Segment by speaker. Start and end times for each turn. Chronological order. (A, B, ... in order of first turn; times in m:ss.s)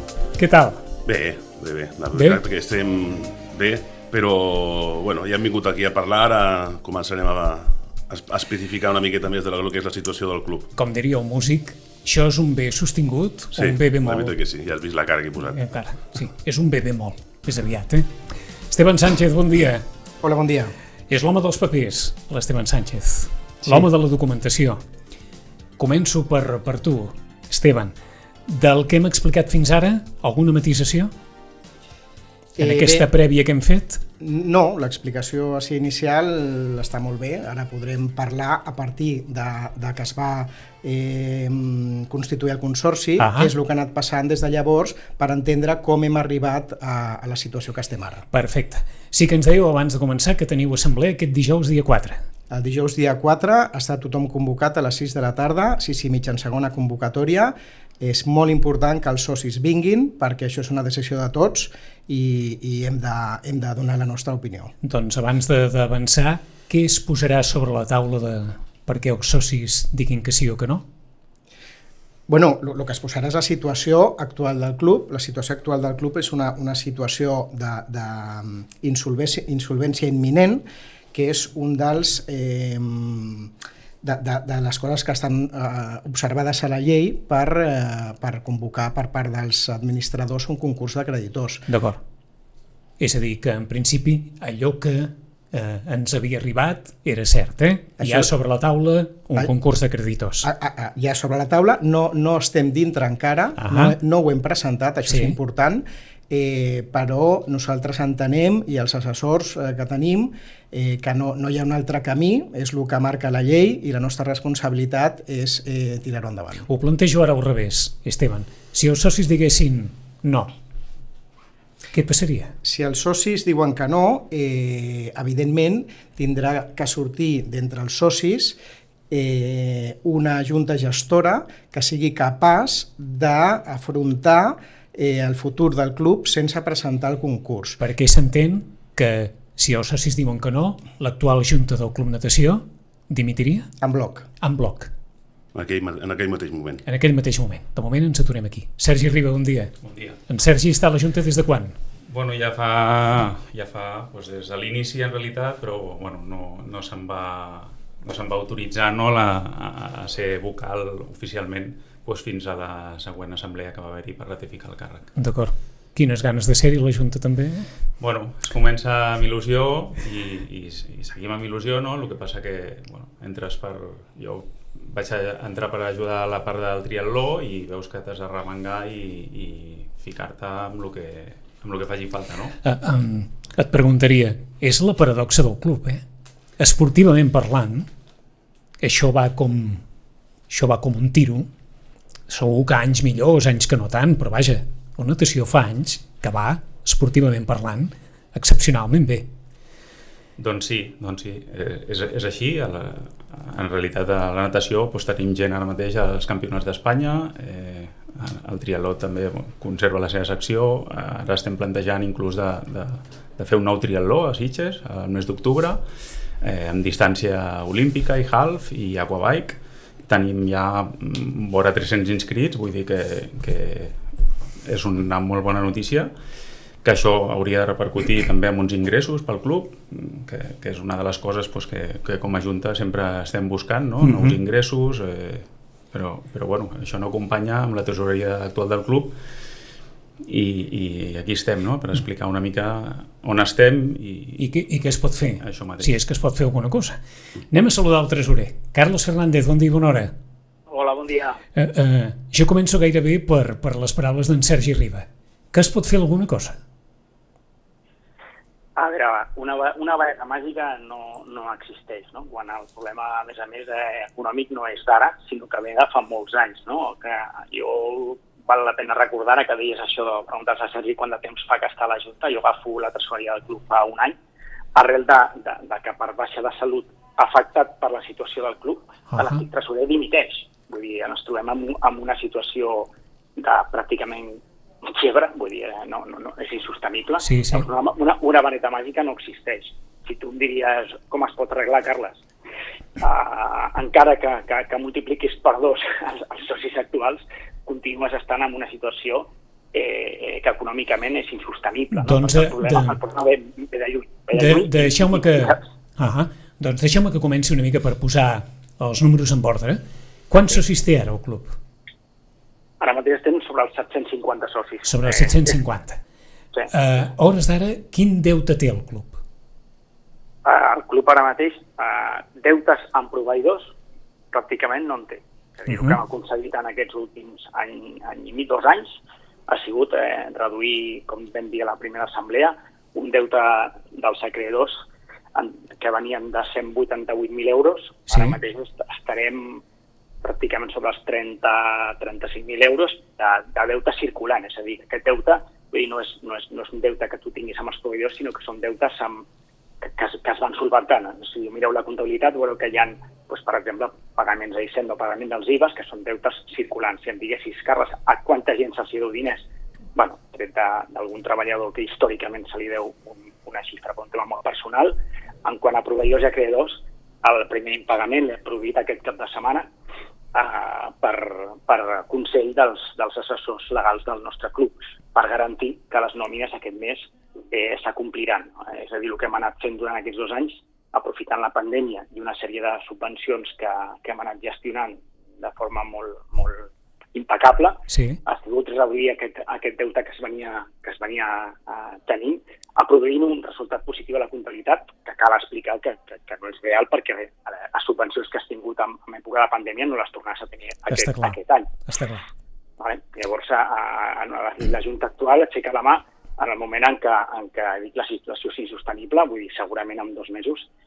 0:00.4-0:00.8 A
0:01.0-0:10.7 B
0:10.8-0:14.3 A
0:13.6-0:15.7 B
0:15.5-0:18.1 A
0:18.7-0:19.8 A
0:20.2-0:20.7 C
0:21.1-0:24.8 A
0:23.6-0:23.9 C
0:25.8-0:27.9 A
0:28.5-0:31.1 A
0:32.6-0:33.1 C
0:32.6-0:34.0 A
0:34.2-0:48.2 C
0:43.2-0:43.5 A
0:48.3-0:52.2 A
0:52.5-1:04.7 C
1:04.8-1:10.8 A
1:12.3-1:31.7 C
1:31.7-1:32.0 A
1:33.0-1:40.5 A
1:38.0-1:38.3 C
1:40.4-1:56.7 C
1:43.6-1:44.0 A
1:45.1-1:45.4 A
1:56.7-2:00.5 A
2:01.9-2:02.5 A
2:02.6-2:08.6 C
2:09.1-2:17.8 C
2:17.8-2:23.7 A
2:23.8-2:24.3 C
2:24.4-2:24.9 A
2:25.5-2:26.8 B
2:26.8-2:29.7 A
2:29.8-2:30.2 D
2:30.3-2:31.8 A
2:32.0-2:45.1 D
2:45.2-2:47.7 A
2:48.0-3:02.6 D
3:02.6-3:06.0 A
3:06.6-3:07.9 A
3:08.8-3:09.8 A
3:10.5-3:11.5 A
3:12.3-3:19.2 A
3:20.4-3:35.8 D
3:36.4-3:46.1 D
3:46.8-3:59.2 D
3:54.0-3:54.4 A
4:00.2-4:04.5 D
4:04.4-4:07.0 A
4:05.4-4:05.9 D
4:07.5-4:10.1 A
4:10.7-4:11.4 E
4:11.6-4:16.6 A
4:18.8-4:34.2 E
4:34.7-4:52.2 E
4:39.1-4:39.4 A
4:47.2-4:47.6 A
4:53.0-5:05.6 E
5:01.9-5:03.0 A
5:04.3-5:11.6 A
5:12.8-5:15.5 E
5:14.8-5:16.0 A
5:16.7-5:19.2 A
5:20.4-5:23.7 E
5:24.3-5:34.8 E
5:25.7-5:26.0 A
5:35.3-5:39.6 E
5:38.1-5:38.4 A
5:40.2-5:49.2 E
5:49.8-5:59.4 E
6:00.0-6:09.7 E
6:10.3-6:41.8 E
6:27.9-6:28.2 A
6:40.9-6:42.2 A
6:42.8-6:50.7 E